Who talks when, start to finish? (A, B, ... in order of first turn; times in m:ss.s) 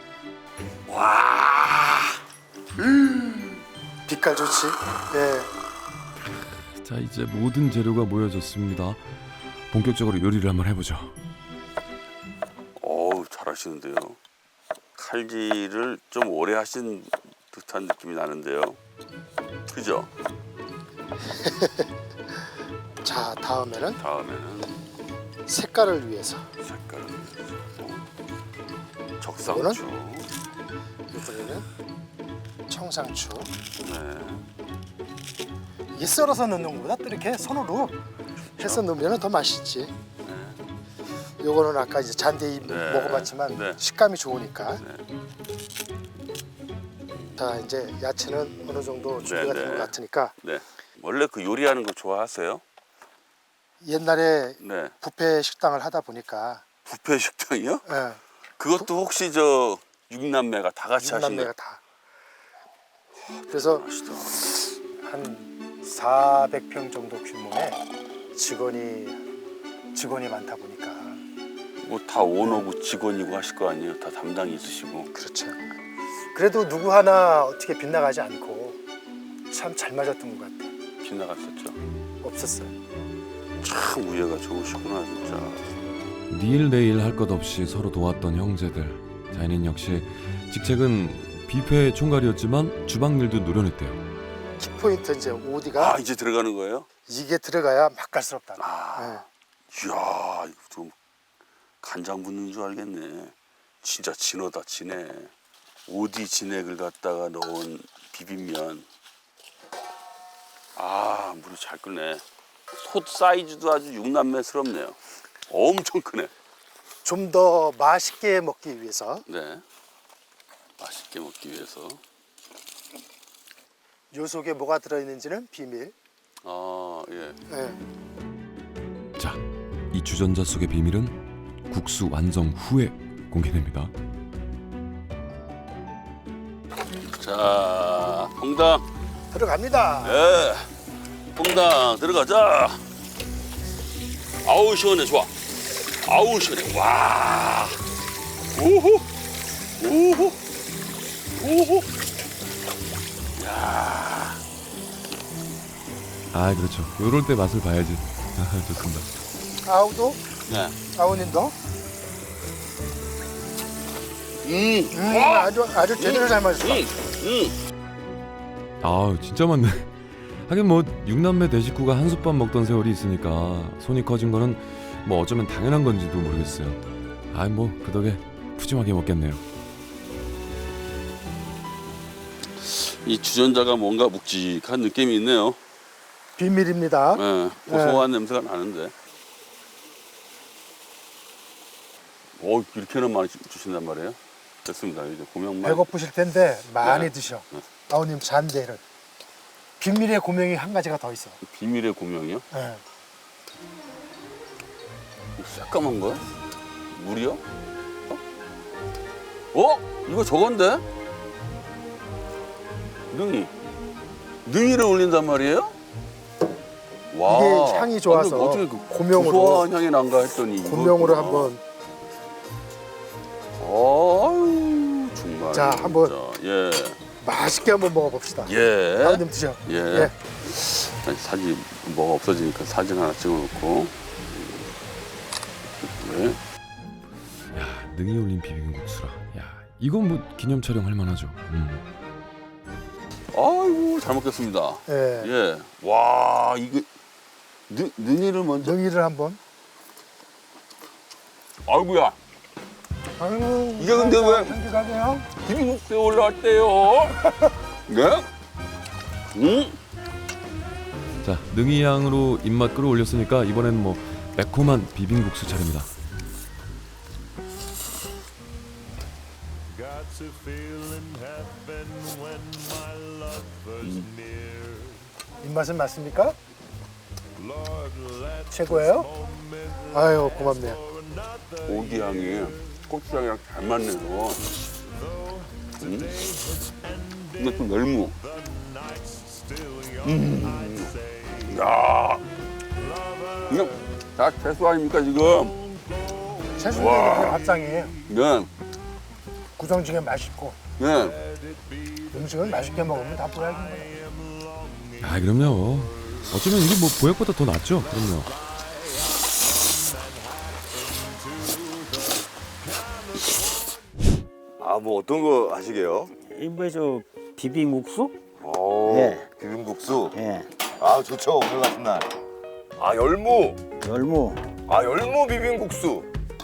0:00.9-0:02.2 A
0:02.8-0:03.3 A
0:04.1-0:05.5 B
0:06.7-0:11.2 C
0:12.8-0:14.2 A
0:15.0-0:18.8 A
0:19.7-0:20.1 A
0:21.3-0:21.9 B
0:23.0-0:24.0 B
0:24.0-0:24.8 A
0:25.5-0:26.5 B
0:26.6-0:28.0 A
0:29.2-0:30.3 A
0:29.5-0:29.8 B
0:31.1-0:31.7 B
0:32.7-0:33.5 B
0:33.8-0:34.4 A
0:35.9-0:38.0 B
0:38.6-0:40.0 B
0:40.2-0:40.6 A
0:41.4-0:44.8 B
0:42.6-0:43.8 A
0:44.8-0:45.0 A
0:47.1-0:47.5 A
0:47.4-0:50.3 B
0:48.5-0:52.6 A
0:53.8-0:56.6 B
0:54.6-0:54.9 A
0:56.9-0:57.8 A
0:57.9-0:58.2 B
0:58.6-1:01.5 A
1:01.0-1:01.8 B
1:03.2-1:07.8 B
1:03.7-1:04.4 A
1:08.3-1:09.2 B
1:09.9-1:11.2 B
1:11.8-1:15.1 A
1:15.1-1:15.6 B
1:16.3-1:18.8 B
1:19.5-1:20.7 B
1:21.0-1:21.8 A
1:22.2-1:22.7 B
1:23.6-1:25.6 A
1:26.3-1:34.0 C
1:34.6-1:36.0 B
1:35.7-1:36.9 A
1:37.1-1:39.2 B
1:38.6-1:40.9 A
1:41.8-1:45.3 A
1:45.9-1:48.9 A
1:50.8-1:55.0 A
1:55.5-1:56.3 A
1:57.0-1:59.2 B
1:59.3-1:59.6 A
2:00.8-2:02.0 A
2:04.1-2:06.0 B
2:06.4-2:07.4 A
2:07.5-2:07.8 B
2:09.2-2:11.2 C
2:11.7-2:13.9 C
2:17.2-2:18.8 A
2:19.3-2:20.2 B
2:20.0-2:20.7 A
2:21.4-2:22.8 A
2:24.4-2:25.3 A
2:26.0-2:27.8 A
2:28.6-2:29.0 A
2:29.8-2:30.4 A
2:31.4-2:31.9 A
2:33.4-2:34.4 A
2:36.3-2:39.1 C
2:39.6-2:40.2 B
2:40.5-2:40.8 A
2:40.9-2:41.6 B
2:44.4-2:47.6 A
2:44.9-2:46.9 B
2:48.8-2:59.4 C
3:02.6-3:05.6 A
3:06.4-3:08.1 B
3:07.1-3:08.9 A
3:12.4-3:15.9 A
3:15.6-3:18.8 B
3:16.8-3:17.6 A
3:19.8-3:21.4 B
3:21.4-3:22.4 A
3:22.5-3:22.8 B
3:25.4-3:26.2 A
3:26.9-3:27.4 A
3:29.5-3:30.8 A
3:33.1-3:33.5 A
3:34.4-3:35.8 A
3:37.1-3:41.6 A
3:37.3-3:39.7 B
3:40.6-3:41.6 B
3:43.6-3:47.0 A
3:45.5-3:46.1 B
3:47.2-3:50.2 B
3:48.4-3:54.7 A
3:55.8-3:56.4 A
3:57.5-4:01.8 C
4:03.3-4:06.9 A
4:04.9-4:05.3 B
4:07.7-4:08.8 A
4:08.6-4:09.4 B
4:11.7-4:12.2 A
4:13.2-4:15.3 B
4:13.8-4:14.6 A
4:15.4-4:18.3 A
4:19.3-4:19.8 A
4:21.2-4:25.9 C
4:33.8-4:34.2 A
4:35.4-4:36.4 B
4:38.5-4:39.1 B
4:39.9-4:40.8 B
4:41.6-4:44.5 A
4:45.8-4:46.6 A
4:47.4-4:48.2 A
4:50.0-4:52.2 A
4:53.5-4:55.6 A
4:56.6-4:58.0 B
4:56.7-4:57.4 A
4:58.1-4:58.5 A
4:59.6-5:00.6 B
5:00.8-5:01.2 A
5:02.1-5:04.1 B
5:05.0-5:08.4 C
5:14.6-5:16.1 D
5:16.3-5:18.2 E
5:18.4-5:20.2 D
5:18.9-5:19.3 E
5:20.1-5:20.5 E
5:20.8-5:22.1 D
5:22.8-5:23.6 D
5:23.8-5:24.5 E
5:24.7-5:26.1 D